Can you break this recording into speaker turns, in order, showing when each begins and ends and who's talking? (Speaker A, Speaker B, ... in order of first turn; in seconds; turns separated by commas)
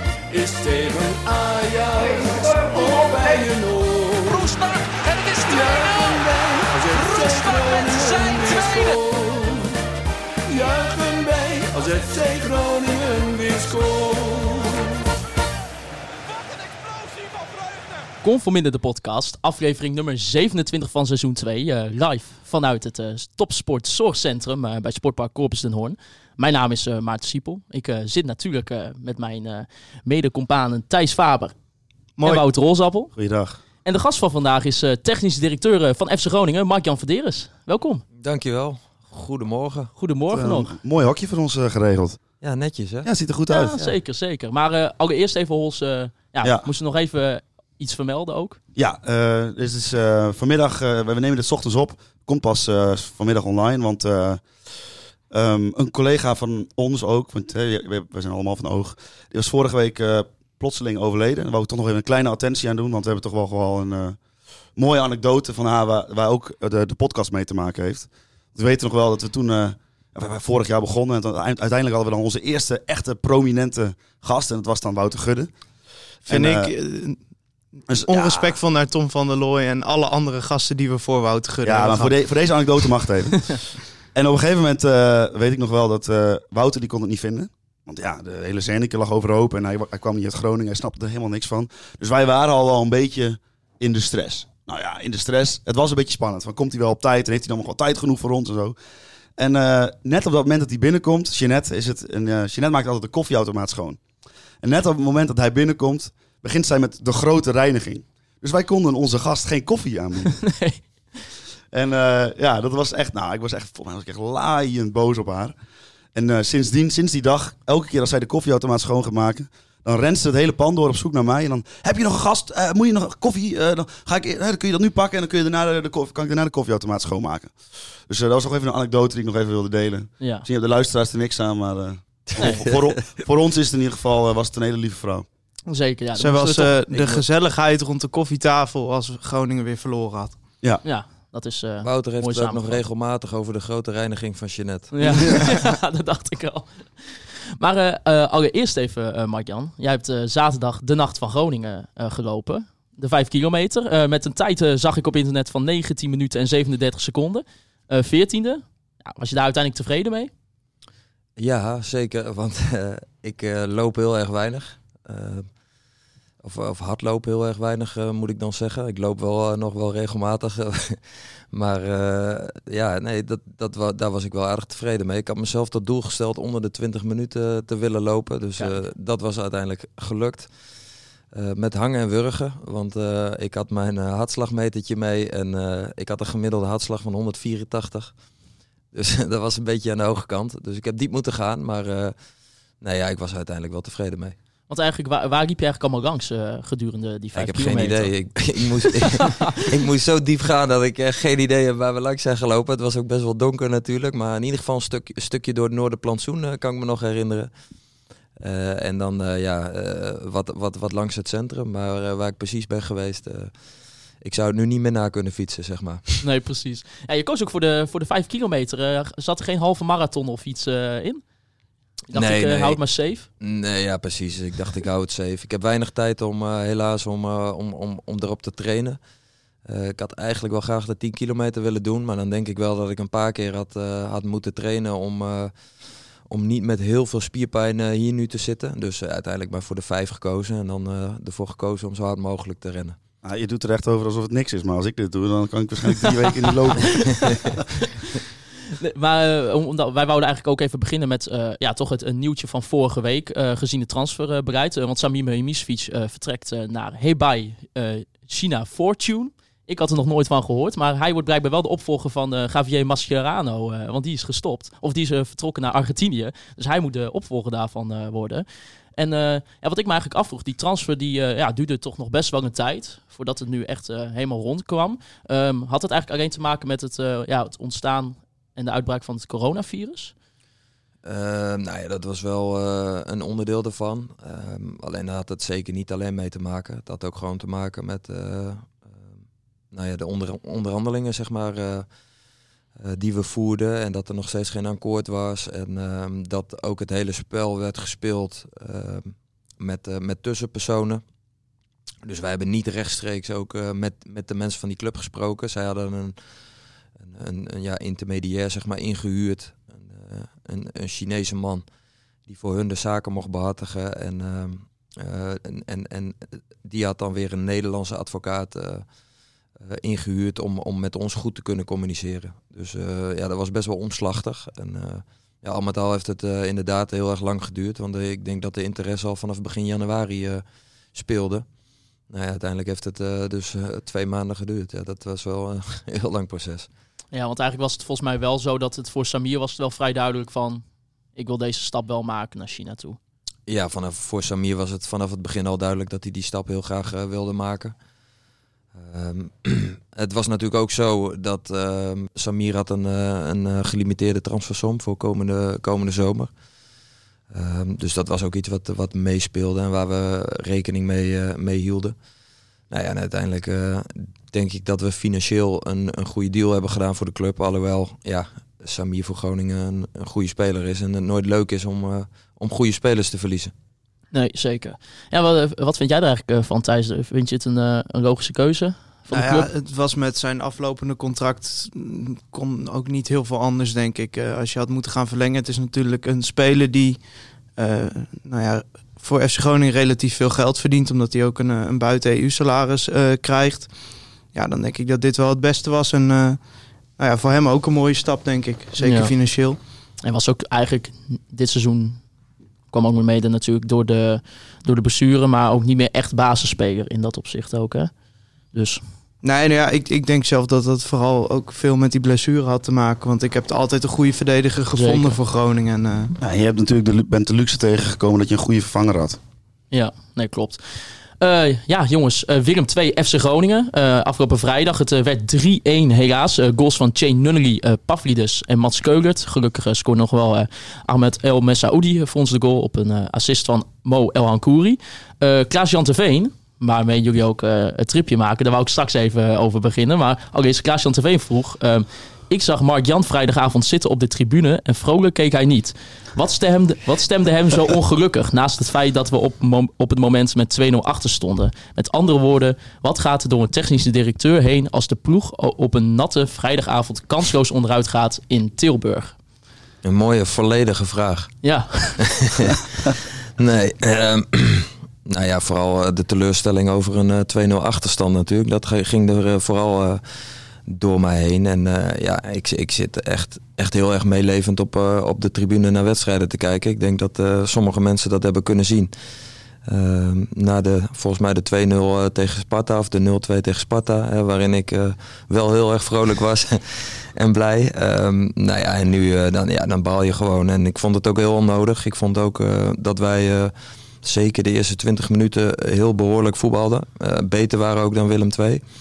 Speaker A: 0.3-4.5, Speaker B: 4.3-6.2, Speaker A: 5.4-9.8, Speaker B: 6.9-9.0, Speaker A: 10.5-15.0, Speaker C: 18.2-31.5, Speaker D: 32.2-32.4, Speaker C: 32.2-33.1, Speaker E: 33.1-33.6, Speaker C: 33.8-38.0, Speaker F: 38.2-39.9, Speaker C: 40.0-40.7, Speaker E: 40.3-42.2, Speaker F: 42.4-43.1, Speaker E: 43.0-43.8, Speaker C: 43.5-48.6, Speaker E: 48.8-54.5, Speaker E: 55.3-64.2, Speaker E: 64.8-75.5, Speaker E: 76.2-76.7, Speaker D: 76.3-77.2, Speaker E: 77.9-78.6, Speaker D: 78.0-82.2, Speaker E: 81.6-83.6, Speaker E: 84.1-98.8, Speaker E: 99.4-104.0, Speaker E: 104.6-110.4, Speaker C: 110.4-110.8, Speaker E: 111.7-115.5, Speaker E: 116.1-135.3, Speaker C: 130.2-130.5, Speaker F: 132.3-133.0, Speaker C: 135.7-137.2, Speaker D: 136.2-140.4, Speaker C: 140.8-142.8, Speaker F: 141.8-145.5, Speaker C: 144.9-160.3, Speaker F: 161.4-165.5, Speaker F: 166.4-171.0, Speaker F: 171.5-180.5, Speaker C: 178.6-178.8, Speaker F: 181.3-188.1, Speaker F: 188.9-192.2, Speaker F: 192.8-194.4, Speaker C: 194.7-198.1, Speaker F: 197.3-207.5, Speaker F: 208.4-213.5, Speaker F: 214.2-216.2, Speaker C: 216.2-221.2, Speaker C: 222.1-223.3, Speaker F: 222.1-222.8, Speaker F: 223.4-229.0, Speaker F: 229.7-235.5, Speaker F: 236.3-243.0, Speaker E: 243.2-247.5, Speaker C: 248.8-280.1, Speaker F: 281.0-288.8, Speaker F: 289.7-291.9, Speaker F: 292.8-301.0, Speaker F: 302.0-306.2, Speaker F: 307.0-311.6, Speaker F: 312.3-318.9, Speaker F: 319.6-331.5, Speaker F: 332.1-336.7, Speaker C: 337.1-340.6, Speaker C: 341.1-343.0, Speaker F: 343.5-347.8, Speaker F: 348.8-356.3, Speaker F: 357.3-361.9, Speaker F: 362.7-373.5, Speaker C: 374.1-379.5, Speaker D: 379.1-393.7, Speaker D: 394.3-396.4, Speaker D: 397.0-399.6, Speaker C: 398.8-399.1, Speaker C: 400.0-402.0, Speaker C: 402.7-407.9, Speaker C: 408.5-408.8, Speaker D: 409.2-416.1, Speaker C: 414.7-415.2, Speaker E: 416.2-419.2, Speaker C: 419.7-459.2, Speaker F: 459.8-461.4, Speaker C: 461.4-462.1, Speaker F: 462.0-470.0, Speaker F: 470.7-478.9, Speaker F: 479.7-498.6